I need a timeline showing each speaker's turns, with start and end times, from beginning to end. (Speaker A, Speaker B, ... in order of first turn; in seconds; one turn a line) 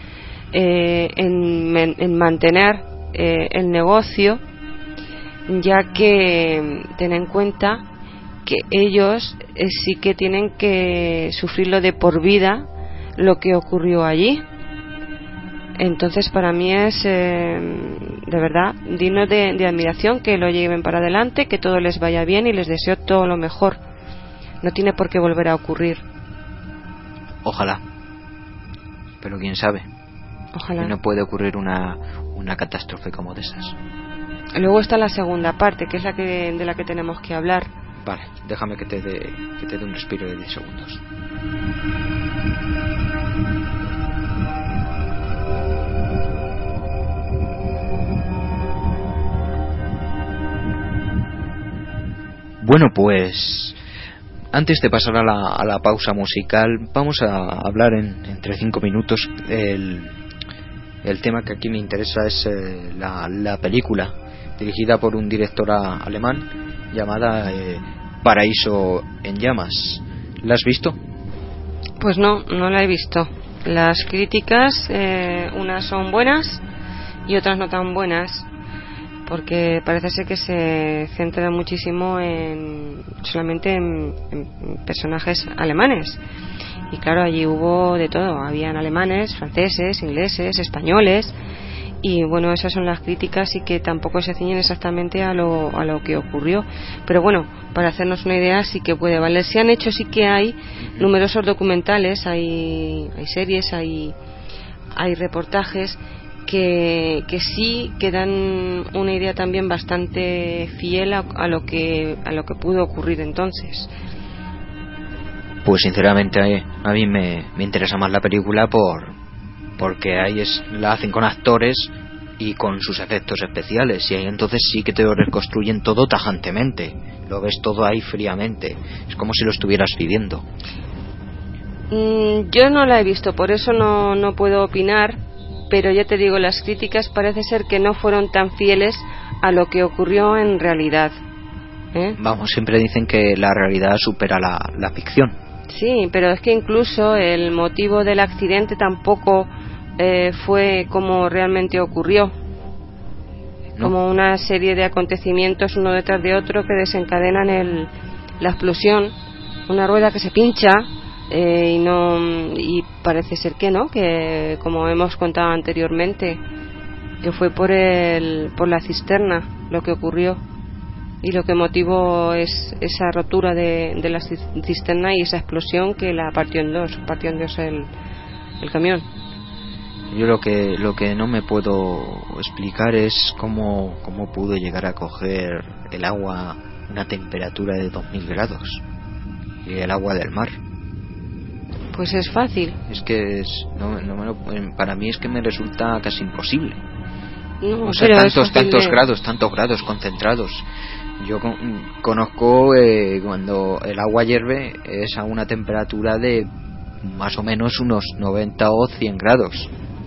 Speaker A: 0.5-4.4
Speaker A: 5.5-7.8
Speaker A: 8.4-14.4
Speaker A: 15.8-23.8
Speaker A: 24.6-26.0
Speaker B: 27.4-27.8
Speaker B: 29.2-29.9
Speaker A: 30.5-30.9
Speaker B: 30.8-33.8
Speaker A: 34.5-37.7
Speaker B: 38.0-41.0
Speaker B: 52.6-53.8
Speaker B: 54.5-60.2
Speaker B: 61.0-71.0
Speaker A: 72.0-76.6
Speaker A: 77.2-78.5
Speaker A: 79.3-86.2
Speaker A: 86.9-91.3
Speaker A: 92.0-104.1
Speaker B: 100.8-101.1
Speaker A: 104.9-113.9
Speaker B: 115.6-119.2
Speaker B: 119.8-130.4
Speaker A: 131.9-135.2
Speaker A: 135.7-141.1
Speaker B: 142.2-145.4
Speaker A: 145.7-152.3
Speaker A: 153.8-159.2
Speaker A: 159.7-166.4
Speaker A: 167.2-170.4
Speaker A: 171.2-177.9
Speaker A: 178.6-179.1
Speaker B: 180.1-188.8
Speaker B: 189.6-190.5
Speaker A: 191.9-192.8
Speaker B: 192.9-196.8
Speaker A: 197.6-199.0
Speaker B: 197.8-200.6
Speaker B: 201.2-206.5
Speaker B: 207.0-209.7